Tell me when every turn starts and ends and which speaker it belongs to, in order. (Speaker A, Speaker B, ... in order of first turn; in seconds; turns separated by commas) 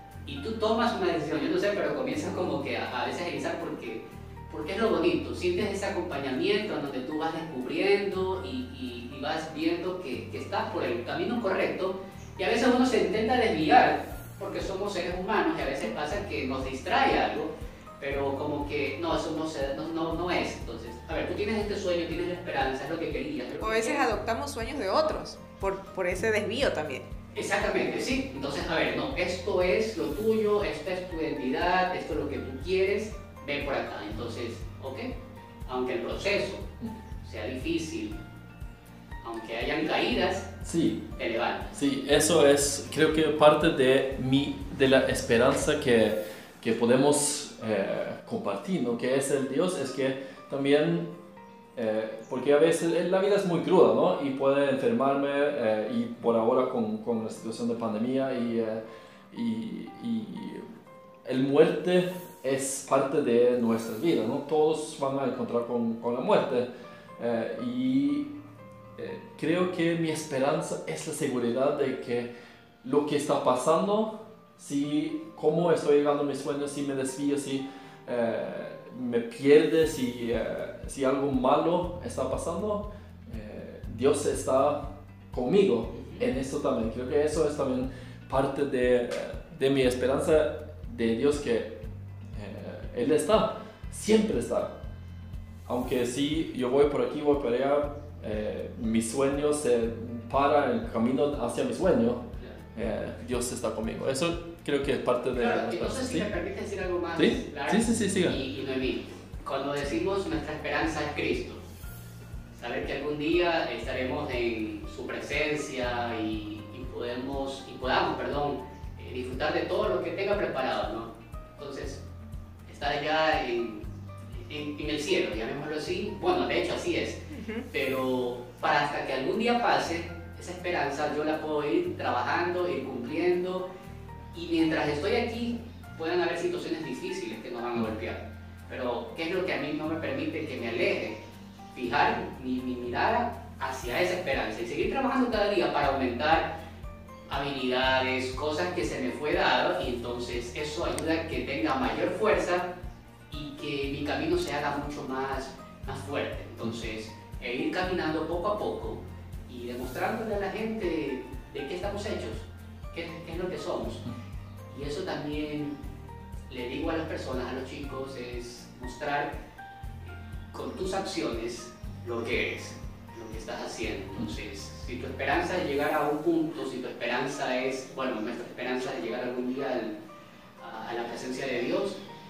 Speaker A: 0.2-24.1, Speaker B: 23.6-27.1, Speaker A: 27.3-35.1, Speaker A: 35.6-36.6, Speaker A: 37.2-38.2, Speaker A: 39.2-40.5, Speaker C: 40.6-41.1, Speaker A: 41.2-41.7, Speaker C: 41.7-51.1, Speaker C: 51.8-60.6, Speaker C: 61.2-68.3, Speaker C: 69.0-72.3, Speaker C: 72.8-91.8, Speaker A: 85.9-86.3, Speaker C: 92.3-94.7, Speaker C: 95.7-102.2, Speaker C: 102.7-106.3, Speaker A: 105.4-111.6, Speaker C: 107.2-108.4, Speaker A: 112.5-122.0, Speaker A: 122.7-123.8, Speaker A: 124.4-133.6, Speaker B: 127.3-127.7, Speaker A: 134.3-141.2, Speaker A: 141.7-146.6, Speaker A: 147.3-152.7, Speaker A: 153.3-164.1, Speaker A: 164.7-165.8, Speaker A: 166.5-169.3, Speaker A: 170.5-179.9, Speaker A: 180.6-182.0